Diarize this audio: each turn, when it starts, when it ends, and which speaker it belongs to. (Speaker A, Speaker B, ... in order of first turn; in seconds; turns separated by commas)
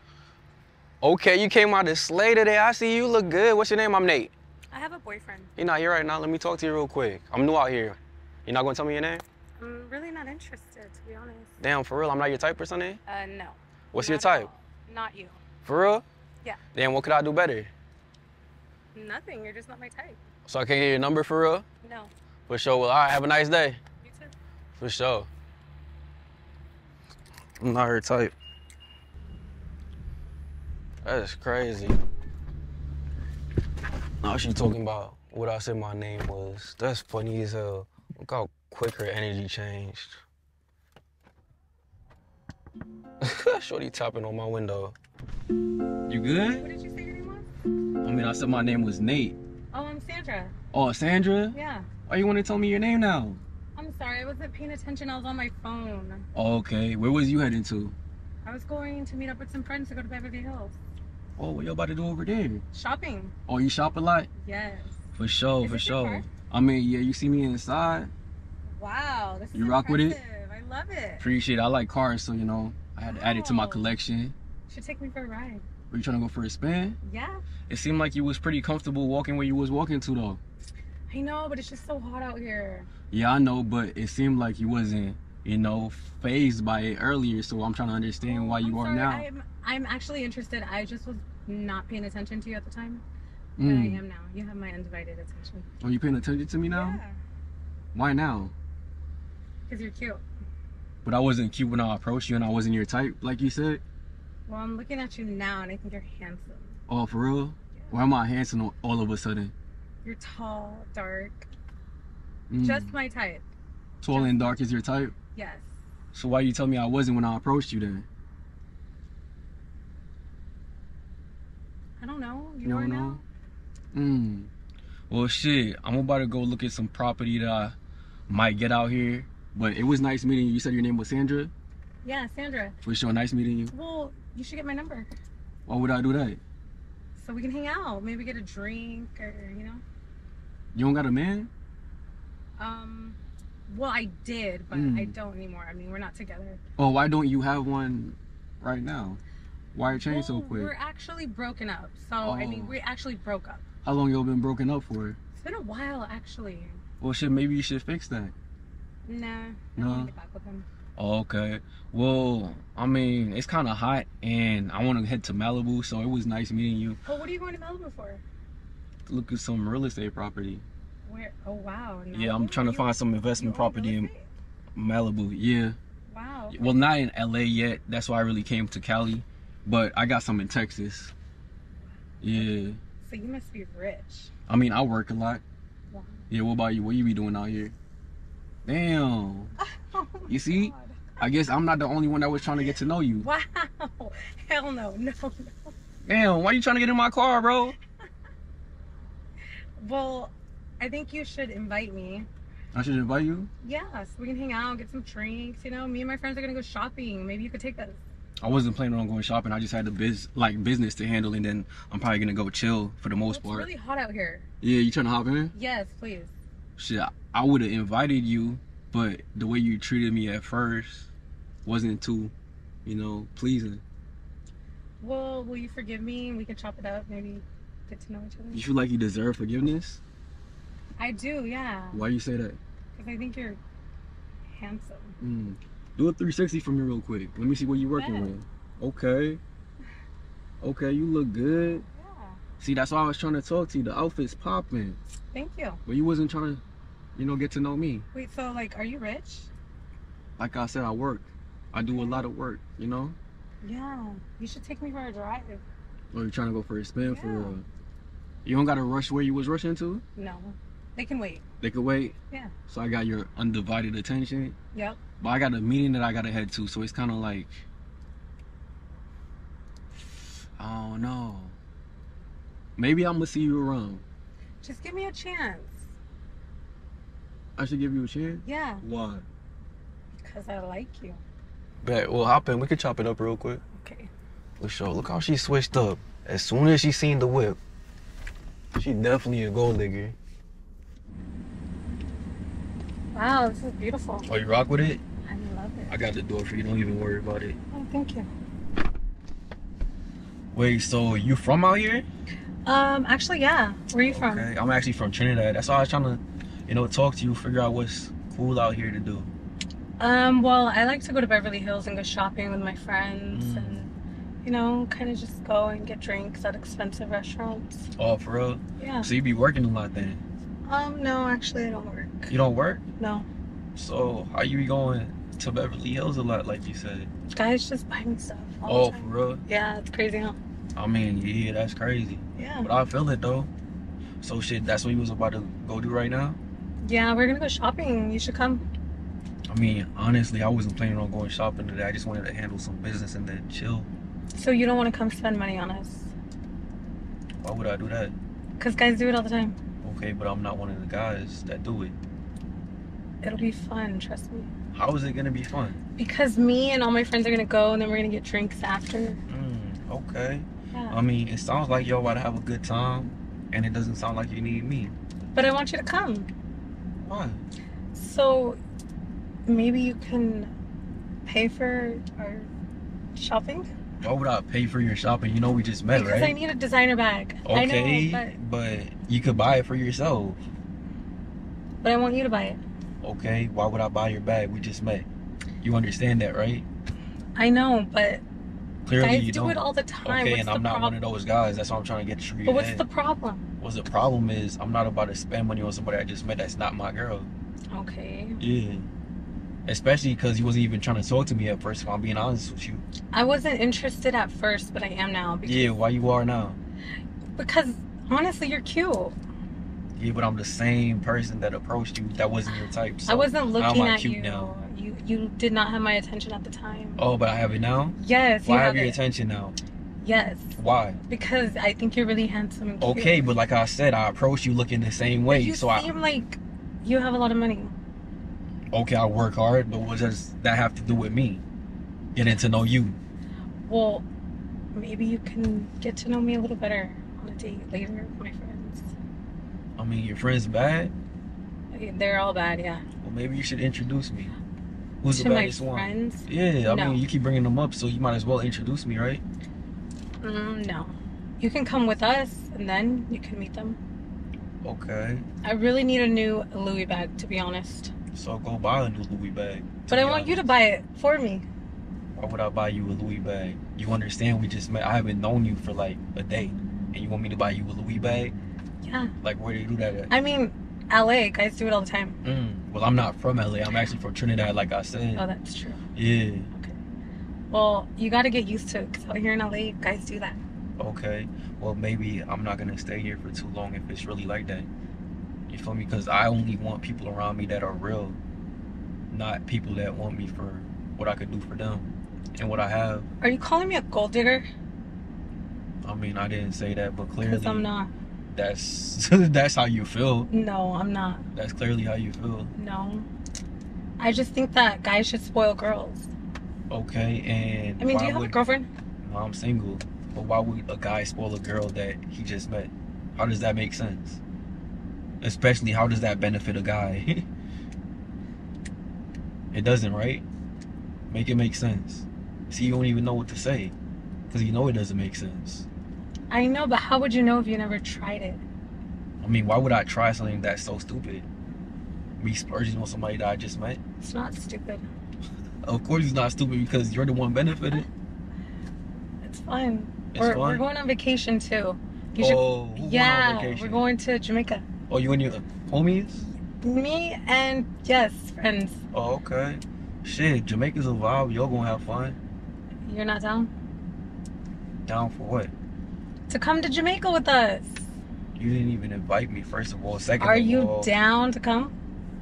Speaker A: 1.0-4.3, Speaker B: 4.7-5.5, Speaker A: 5.6-9.2, Speaker B: 9.6-11.5, Speaker A: 11.6-13.0, Speaker B: 13.1-15.4, Speaker A: 13.9-14.5, Speaker A: 15.6-16.0, Speaker A: 16.7-17.7, Speaker B: 18.9-20.2, Speaker A: 20.5-21.6, Speaker B: 21.8-22.1, Speaker A: 22.5-23.8, Speaker B: 24.0-24.3, Speaker A: 24.8-25.3, Speaker A: 27.6-28.3, Speaker A: 31.0-32.0, Speaker A: 34.2-40.2, Speaker A: 43.2-45.0, Speaker A: 46.1-46.7, Speaker B: 46.4-47.5, Speaker A: 48.0-49.4, Speaker B: 49.7-50.5, Speaker A: 50.7-51.5, Speaker B: 51.5-51.9, Speaker A: 52.1-53.4, Speaker B: 53.8-56.3, Speaker A: 56.3-58.0, Speaker B: 58.4-60.8, Speaker A: 61.4-62.6, Speaker B: 62.7-63.3, Speaker A: 63.5-64.3, Speaker B: 64.4-65.0, Speaker A: 65.1-68.1, Speaker B: 65.6-66.3, Speaker B: 68.7-71.3, Speaker A: 69.5-70.2, Speaker A: 71.2-74.3, Speaker B: 73.0-74.0, Speaker B: 74.7-75.6, Speaker A: 75.9-77.0, Speaker B: 77.0-77.4, Speaker A: 77.7-80.4, Speaker B: 81.1-82.9, Speaker A: 83.1-89.2, Speaker B: 88.2-93.0, Speaker A: 93.6-94.0, Speaker B: 93.6-95.7, Speaker A: 95.8-97.0, Speaker B: 96.6-97.2, Speaker A: 97.9-98.5, Speaker B: 99.7-100.2, Speaker A: 101.0-103.8, Speaker B: 104.5-106.8, Speaker A: 106.9-109.5, Speaker B: 110.0-111.5, Speaker A: 112.5-112.9, Speaker B: 112.6-113.4, Speaker A: 114.0-115.1, Speaker B: 114.1-114.5, Speaker B: 115.3-115.7, Speaker A: 116.1-118.1, Speaker B: 122.0-123.2, Speaker A: 122.6-123.2, Speaker A: 123.9-124.5, Speaker A: 125.1-127.8, Speaker A: 128.3-131.5, Speaker B: 132.0-132.8, Speaker A: 132.8-133.7, Speaker B: 133.7-135.1, Speaker A: 135.7-136.4, Speaker B: 137.2-139.8, Speaker A: 140.7-141.5, Speaker B: 142.6-146.6, Speaker A: 144.7-145.2, Speaker A: 146.8-149.2, Speaker A: 149.7-150.7, Speaker B: 149.8-153.6, Speaker A: 152.2-152.8, Speaker A: 153.8-155.2, Speaker B: 155.4-156.8, Speaker A: 157.0-158.3, Speaker B: 159.1-160.7, Speaker A: 159.8-160.1, Speaker A: 160.9-167.0, Speaker B: 167.1-168.2, Speaker A: 169.1-170.7, Speaker B: 171.1-174.3, Speaker A: 172.1-174.1, Speaker A: 174.8-175.8, Speaker B: 176.1-176.6, Speaker A: 176.5-181.1, Speaker A: 182.2-182.8, Speaker B: 182.3-184.3, Speaker A: 184.5-185.4, Speaker B: 185.9-186.2, Speaker A: 186.3-187.7, Speaker A: 188.6-189.5, Speaker B: 189.8-191.2, Speaker A: 190.3-193.3, Speaker B: 193.2-195.7, Speaker A: 196.1-197.8, Speaker B: 199.8-202.3, Speaker A: 202.7-203.5, Speaker B: 203.6-208.0, Speaker A: 208.4-213.7, Speaker B: 213.3-214.4, Speaker A: 214.6-215.5, Speaker B: 215.5-216.3, Speaker A: 216.8-221.1, Speaker A: 221.6-222.3, Speaker A: 222.8-223.8, Speaker B: 225.0-228.6, Speaker A: 228.5-230.0, Speaker B: 231.0-232.0, Speaker A: 231.9-232.6, Speaker B: 232.9-233.6, Speaker B: 234.5-235.2, Speaker A: 235.2-239.4, Speaker B: 237.9-238.3, Speaker A: 240.6-241.8, Speaker B: 241.9-242.4, Speaker A: 242.6-245.0, Speaker B: 245.3-245.8, Speaker A: 245.8-246.6, Speaker A: 247.1-248.1, Speaker B: 248.1-249.5, Speaker A: 250.4-253.2, Speaker B: 251.8-252.2, Speaker B: 253.6-255.6, Speaker A: 256.1-257.6, Speaker B: 257.0-257.6, Speaker A: 258.4-260.0, Speaker B: 260.1-261.4, Speaker A: 261.6-262.1, Speaker A: 262.7-264.5, Speaker B: 264.7-265.0, Speaker A: 265.2-267.6, Speaker A: 270.6-271.6, Speaker A: 272.8-274.0, Speaker B: 274.6-275.9, Speaker A: 277.6-279.2, Speaker B: 278.4-278.8, Speaker B: 280.2-281.2, Speaker A: 281.8-283.6, Speaker B: 283.7-284.1, Speaker A: 284.6-287.6, Speaker A: 288.7-290.1, Speaker B: 293.1-294.3, Speaker A: 294.2-295.0, Speaker B: 295.3-296.0, Speaker A: 295.9-297.6, Speaker B: 297.7-298.3, Speaker A: 300.5-302.1, Speaker B: 302.6-304.5, Speaker A: 304.1-309.3, Speaker B: 310.0-313.9, Speaker A: 313.3-313.9, Speaker B: 314.4-317.9, Speaker A: 318.0-320.2, Speaker B: 318.8-319.1, Speaker B: 320.6-322.3, Speaker A: 322.3-322.8, Speaker B: 323.0-323.3, Speaker A: 323.7-327.1, Speaker B: 327.3-330.4, Speaker A: 328.7-329.4, Speaker A: 330.8-333.5, Speaker B: 332.4-332.7, Speaker A: 334.2-336.4, Speaker B: 336.8-338.6, Speaker A: 339.5-343.9, Speaker B: 344.3-346.1, Speaker A: 347.4-348.1, Speaker B: 348.6-349.6, Speaker A: 349.8-351.9, Speaker B: 353.2-354.5, Speaker A: 354.7-355.8, Speaker B: 356.0-359.2, Speaker A: 359.3-364.9, Speaker B: 360.7-361.0, Speaker B: 365.3-366.3, Speaker A: 367.0-367.4, Speaker B: 367.9-368.6, Speaker B: 369.4-370.5, Speaker B: 371.2-372.5, Speaker B: 373.1-373.7, Speaker A: 374.0-376.3, Speaker B: 375.9-378.3, Speaker A: 377.4-380.4, Speaker B: 381.8-382.6, Speaker A: 383.0-385.1, Speaker A: 385.6-386.6, Speaker B: 387.4-388.2, Speaker A: 388.8-392.8, Speaker B: 389.0-390.9, Speaker B: 392.4-393.4, Speaker A: 393.6-397.3, Speaker B: 397.7-398.4, Speaker A: 398.4-398.9, Speaker A: 399.6-402.9, Speaker B: 403.1-405.7, Speaker A: 405.4-406.6, Speaker B: 407.4-409.1, Speaker A: 409.9-414.6, Speaker B: 413.1-417.0, Speaker A: 417.0-419.6, Speaker B: 417.9-419.0, Speaker B: 420.0-423.3, Speaker A: 420.6-421.0, Speaker A: 422.8-425.9, Speaker B: 425.3-427.7, Speaker A: 428.7-431.4, Speaker A: 432.1-433.0, Speaker B: 433.7-434.1, Speaker B: 434.7-438.9, Speaker A: 439.8-440.9, Speaker B: 441.7-442.8, Speaker A: 443.0-444.3, Speaker A: 445.0-449.2, Speaker B: 445.1-447.0, Speaker B: 450.2-453.8, Speaker A: 454.6-455.2, Speaker B: 455.4-457.9, Speaker A: 458.1-460.4, Speaker B: 459.9-461.5, Speaker A: 462.1-468.3, Speaker B: 468.8-469.1, Speaker A: 469.2-470.1, Speaker B: 470.1-472.2, Speaker A: 472.2-475.2, Speaker B: 475.1-475.8, Speaker A: 475.9-476.5, Speaker B: 477.5-480.4, Speaker A: 480.8-484.7, Speaker A: 485.5-488.2, Speaker A: 489.1-493.1, Speaker B: 493.2-494.4, Speaker A: 495.8-497.7, Speaker B: 497.2-497.9, Speaker A: 498.3-500.3, Speaker B: 500.3-501.2, Speaker A: 501.3-502.5, Speaker B: 502.5-503.1, Speaker B: 504.0-506.1, Speaker A: 506.7-508.3, Speaker B: 507.8-508.7, Speaker A: 509.0-514.2, Speaker A: 515.2-517.2, Speaker A: 519.5-520.2, Speaker A: 521.1-523.7, Speaker A: 524.3-525.6, Speaker B: 526.3-528.4, Speaker A: 529.2-531.3, Speaker A: 532.2-533.8, Speaker B: 534.0-534.9, Speaker A: 535.6-537.9, Speaker B: 539.2-544.6, Speaker A: 540.1-540.6, Speaker A: 542.2-543.9, Speaker A: 544.9-546.2, Speaker B: 546.2-548.8, Speaker A: 548.9-552.2, Speaker B: 552.8-553.5, Speaker A: 554.9-555.5, Speaker B: 556.3-557.9, Speaker A: 558.4-560.9, Speaker B: 560.2-561.7